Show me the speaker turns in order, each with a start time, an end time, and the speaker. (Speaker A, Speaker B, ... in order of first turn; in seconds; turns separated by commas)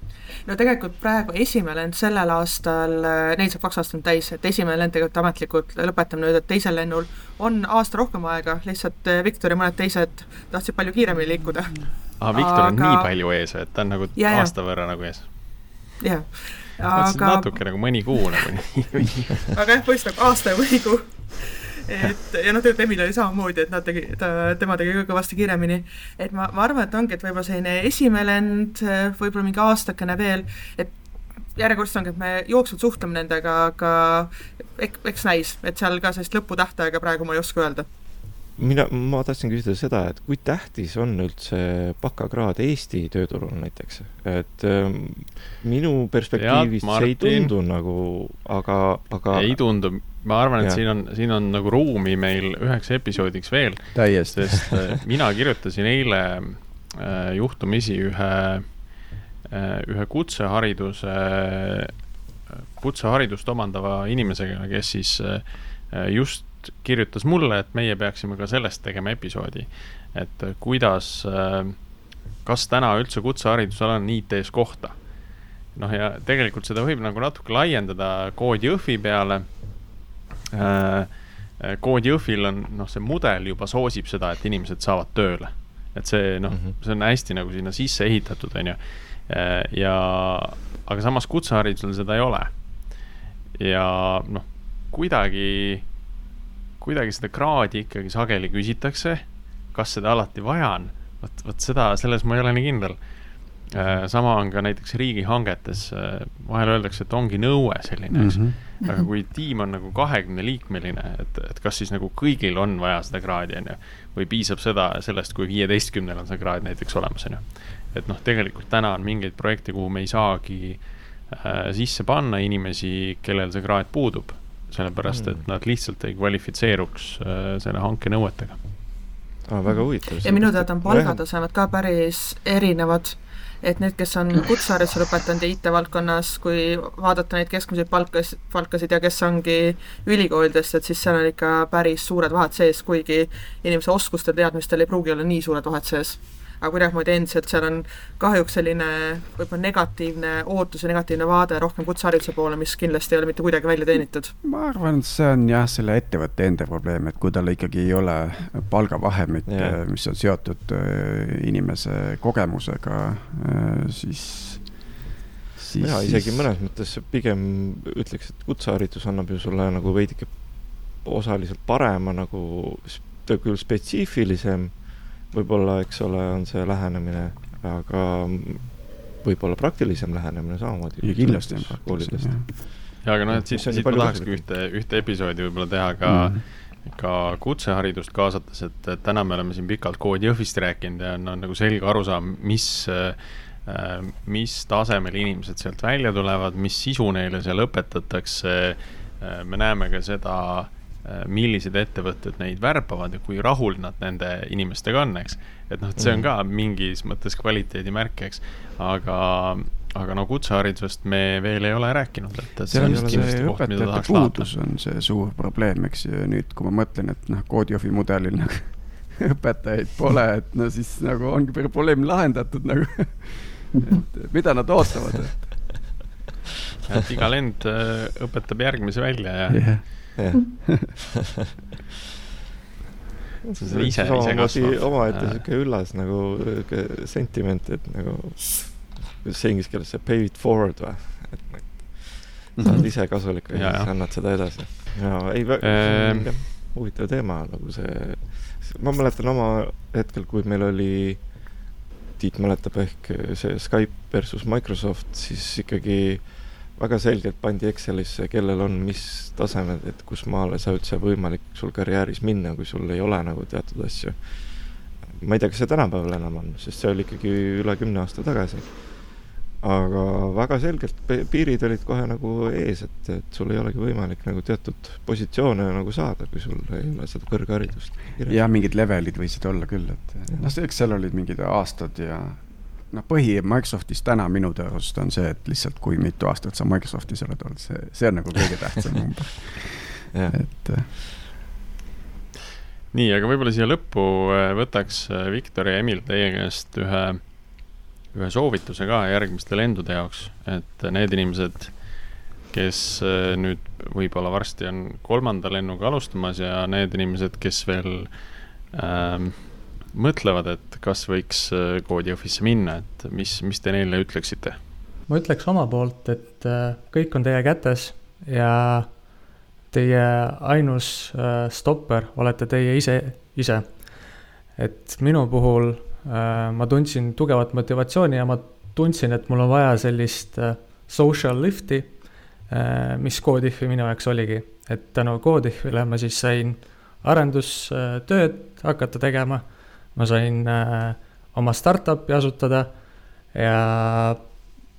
Speaker A: 0.5-13.1, Speaker B: 12.2-15.3, Speaker A: 14.2-14.5, Speaker A: 16.0-17.6, Speaker B: 16.9-19.4, Speaker A: 19.5-30.9, Speaker A: 31.6-37.9, Speaker C: 38.6-49.6, Speaker B: 46.4-47.5, Speaker B: 49.3-58.9, Speaker D: 53.9-54.8, Speaker B: 59.4-62.1, Speaker B: 62.7-71.9, Speaker B: 72.4-75.0, Speaker B: 75.7-79.6, Speaker B: 80.5-92.6, Speaker C: 86.5-86.8, Speaker B: 93.5-95.9, Speaker B: 96.8-103.1, Speaker B: 103.6-128.6, Speaker D: 108.1-108.6, Speaker C: 125.1-125.4, Speaker C: 129.5-131.2, Speaker A: 130.2-154.3, Speaker D: 154.4-164.9, Speaker C: 159.5-159.8, Speaker D: 165.6-166.5, Speaker C: 165.8-184.4, Speaker D: 181.0-182.5, Speaker B: 183.0-214.5, Speaker D: 186.1-186.4, Speaker C: 206.0-206.3, Speaker D: 212.7-225.7, Speaker C: 212.7-213.4, Speaker B: 226.9-229.9, Speaker D: 229.5-230.9, Speaker C: 230.2-231.2, Speaker C: 233.4-251.4, Speaker B: 233.6-235.4, Speaker D: 242.6-242.9, Speaker B: 243.5-243.9, Speaker B: 245.6-246.3, Speaker C: 252.2-278.4, Speaker D: 278.3-290.9, Speaker C: 290.1-290.8, Speaker B: 292.9-297.3, Speaker B: 298.1-301.9, Speaker B: 302.5-314.6, Speaker E: 315.1-319.0, Speaker E: 319.7-324.0, Speaker E: 324.6-332.0, Speaker E: 332.5-342.7, Speaker E: 343.3-344.2